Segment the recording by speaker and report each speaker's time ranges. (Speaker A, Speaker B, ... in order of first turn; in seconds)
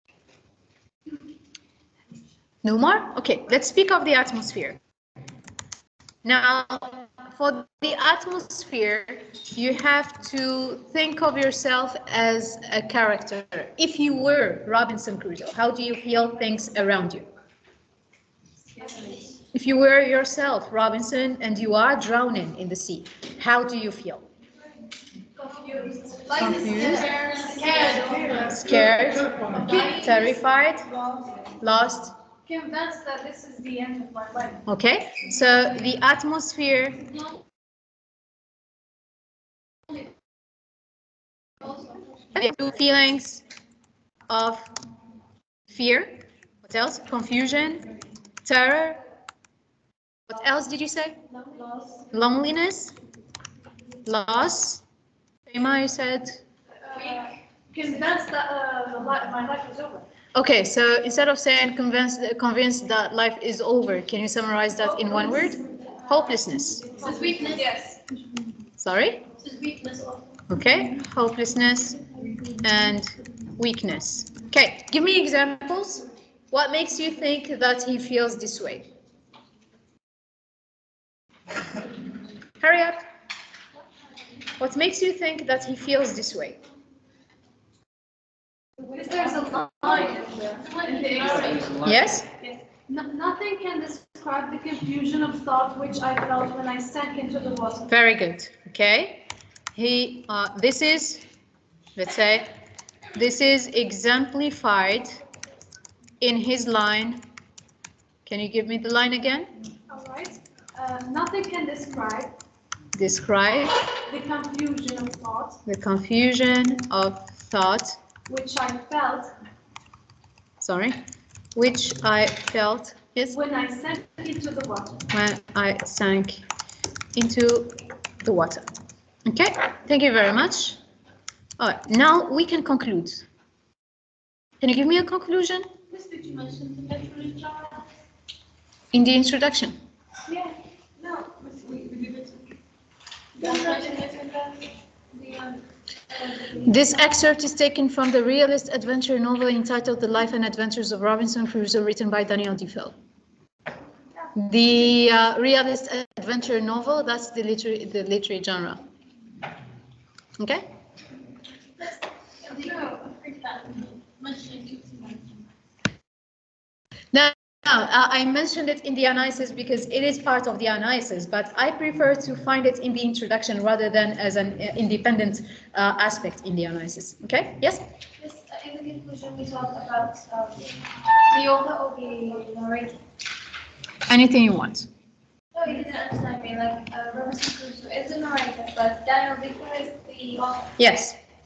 Speaker A: 2.6-4.8, 6.2-17.3, 19.5-24.2, 26.4-27.1, 28.4-30.9, 31.6-32.1, 34.7-37.1, 42.4-43.5, 44.3-44.7, 45.7-47.9, 48.5-49.0, 50.3-51.2, 52.1-53.0, 54.0-54.8, 55.5-56.4, 60.4-66.9, 68.8-69.3, 70.5-72.0, 72.6-78.9, 82.6-83.0, 84.6-86.6, 91.8-92.3, 97.9-101.2, 102.0-102.5, 103.2-105.2, 106.2-107.2, 108.3-109.5, 113.0-113.8, 115.7-118.0, 120.6-121.0, 121.5-123.4, 125.1-126.4, 127.2-128.7, 129.3-130.8, 131.6-133.2, 134.6-135.7, 138.9-139.8, 146.6-152.9, 154.3-158.8, 160.4-160.7, 167.1-177.9, 184.1-184.9, 190.8-191.2
Speaker B: 18.8-19.1, 26.3-30.3, 30.9-31.2, 57.0-57.2, 67.0-68.0, 69.4-70.3, 89.8-91.9, 135.9-137.8, 141.0-142.4, 143.4-144.6, 145.2-145.6, 146.1-146.6, 162.4-165.3, 178.2-180.7, 181.3-183.0, 185.6-190.7
Speaker C: 25.4-30.1, 32.5-34.6, 56.9-60.0, 66.9-67.9, 88.8-91.8, 92.4-97.9, 109.9-112.3, 114.1-115.6, 118.3-119.3, 123.3-125.0, 143.4-144.0